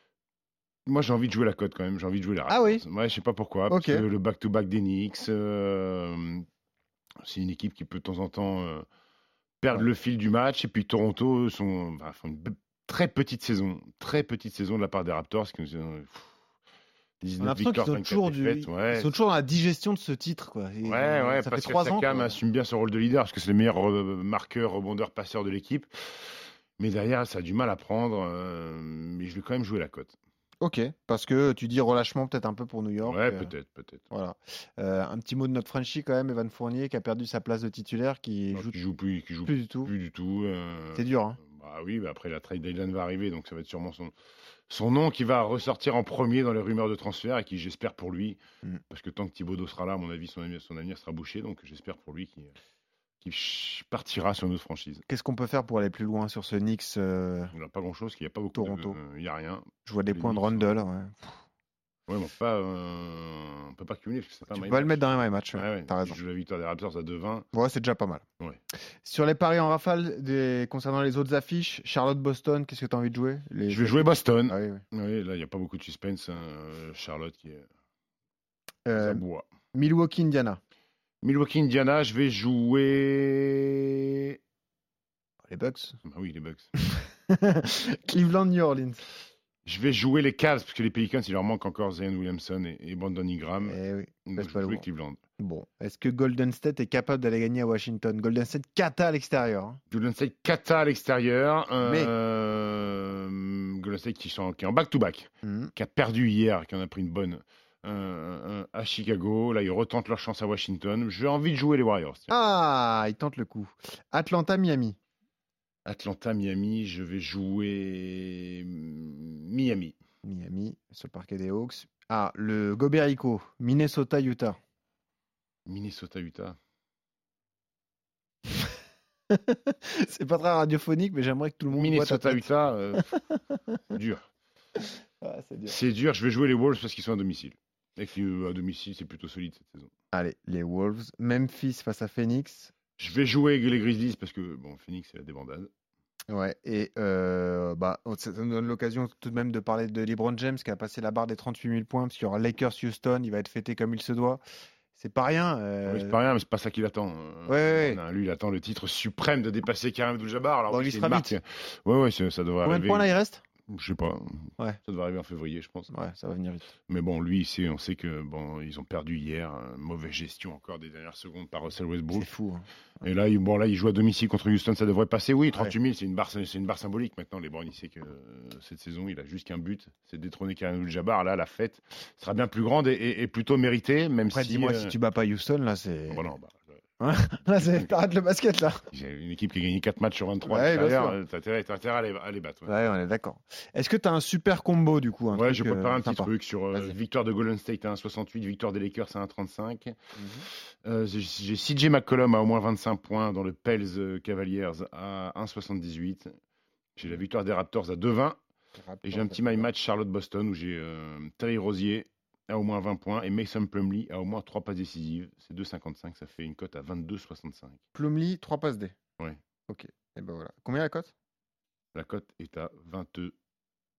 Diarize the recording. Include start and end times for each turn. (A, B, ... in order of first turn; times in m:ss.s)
0:00.9-0:06.4 A
0:02.5-0:02.8 B
0:03.7-0:04.0 B
0:07.2-0:08.8 A
0:09.6-0:16.3 A
0:17.2-0:19.1 A
0:17.4-0:22.4 B
0:20.8-0:25.9 A
0:26.8-0:30.1 A
0:30.6-0:33.5 B
0:33.0-0:34.1 A
0:34.1-0:38.7 B
0:38.5-0:44.1 A
0:39.4-0:39.9 B
0:40.9-0:41.4 B
0:44.7-0:52.5 A
0:53.2-0:55.0 A
0:55.1-0:57.5 B
0:57.5-1:00.6 A
0:58.5-0:59.0 B
0:59.8-1:01.4 B
1:02.1-1:07.5 A
1:04.5-1:06.2 B
1:07.5-1:08.2 B
1:09.0-1:14.8 B
1:13.7-1:17.7 A
1:18.8-1:20.6 B
1:18.9-1:19.5 A
1:21.2-1:24.4 A
1:25.4-1:26.0 B
1:26.0-1:26.7 A
1:26.8-1:29.0 B
1:29.6-1:35.2 A
1:33.6-1:34.8 B
1:35.4-1:39.8 B
1:39.9-1:52.3 A
1:41.8-1:42.1 B
1:45.4-1:45.7 B
1:52.3-1:55.0 B
1:55.8-2:00.0 A
2:00.2-2:04.6 B
2:05.6-2:06.6 A
2:09.3-2:13.0 B
2:11.7-2:13.2 A
2:13.9-2:14.3 A
2:15.2-2:15.8 B
2:15.7-2:19.9 A
2:20.1-2:22.7 B
2:23.0-2:25.7 A
2:26.3-2:34.4 B
2:34.9-2:36.2 B
2:35.8-2:43.1 A
2:37.5-2:38.0 B
2:40.7-2:41.4 B
2:42.6-2:43.4 B
2:43.7-2:45.9 A
2:45.9-2:46.6 B
2:46.9-2:52.3 A
2:52.1-2:52.6 B
2:53.0-3:04.9 A
3:04.3-3:06.3 B
3:06.1-3:06.8 A
3:07.0-3:08.8 B
3:07.6-3:07.8 A
3:08.9-3:12.7 A
3:10.4-3:11.2 B
3:12.6-3:16.9 B
3:15.3-3:20.0 A
3:20.2-3:20.5 B
3:20.8-3:26.3 A
3:27.0-3:28.4 A
3:28.8-3:29.7 B
3:29.0-3:37.8 A
3:37.9-3:38.9 B
3:39.7-3:41.1 B
3:41.9-3:43.3 A